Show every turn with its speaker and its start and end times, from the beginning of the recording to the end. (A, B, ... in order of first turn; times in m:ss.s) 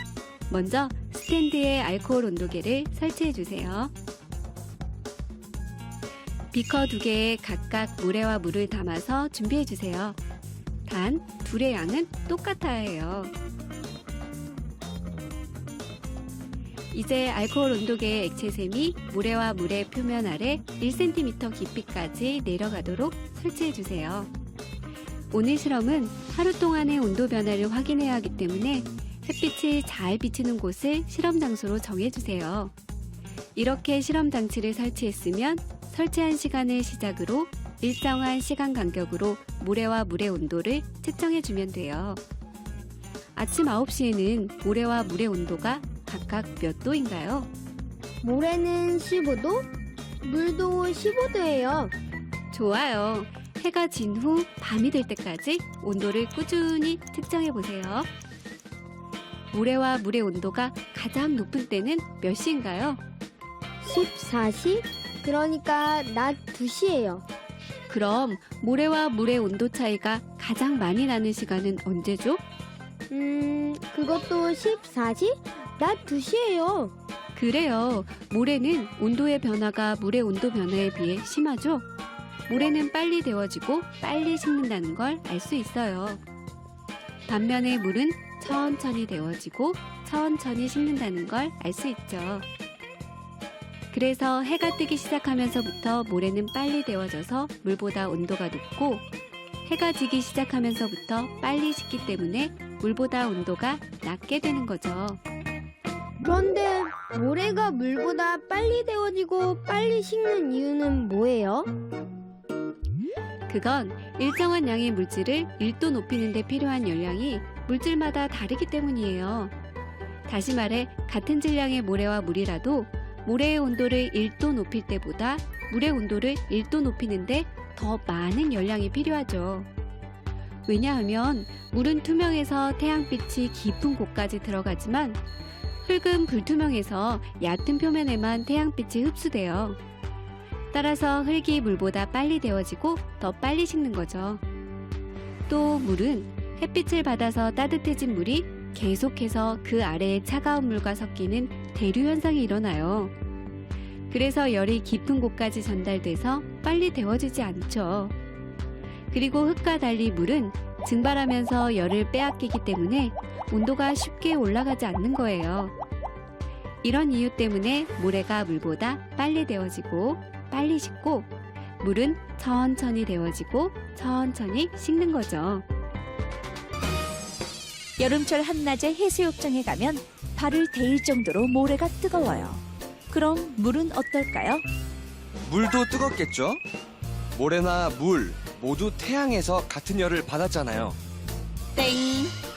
0:00.5-0:03.9 A
0:06.5-0:10.2 A
0:10.9-0:13.3 A
0:16.9-0:24.3 A
0:25.3-0:32.7 A
0:33.6-0:42.2 A
0:43.4-0:47.5 A
0:48.2-0:49.7 B
0:50.2-0:51.9 B
0:52.5-0:58.1 A
0:59.5-1:03.0 A
1:03.8-1:07.2 B
1:07.9-1:12.4 A
1:13.1-1:16.9 B
1:17.3-1:21.8 A
1:22.5-1:26.2 A
1:27.3-1:32.4 A
1:33.9-1:39.0 A
1:39.7-1:45.2 A
1:46.2-1:51.7 B
1:53.5-1:59.5 A
2:00.3-2:09.7 A
2:10.7-2:15.2 A
2:15.8-2:19.8 A
2:20.7-2:24.4 A
2:25.5-2:33.1 A
2:34.1-2:38.1 A
2:39.1-2:45.7 A
2:46.8-2:51.3 A
2:51.8-2:55.6 A
2:58.0-3:04.6 C
3:05.4-3:06.6 D
3:07.3-3:11.0 D
3:11.8-3:12.4 C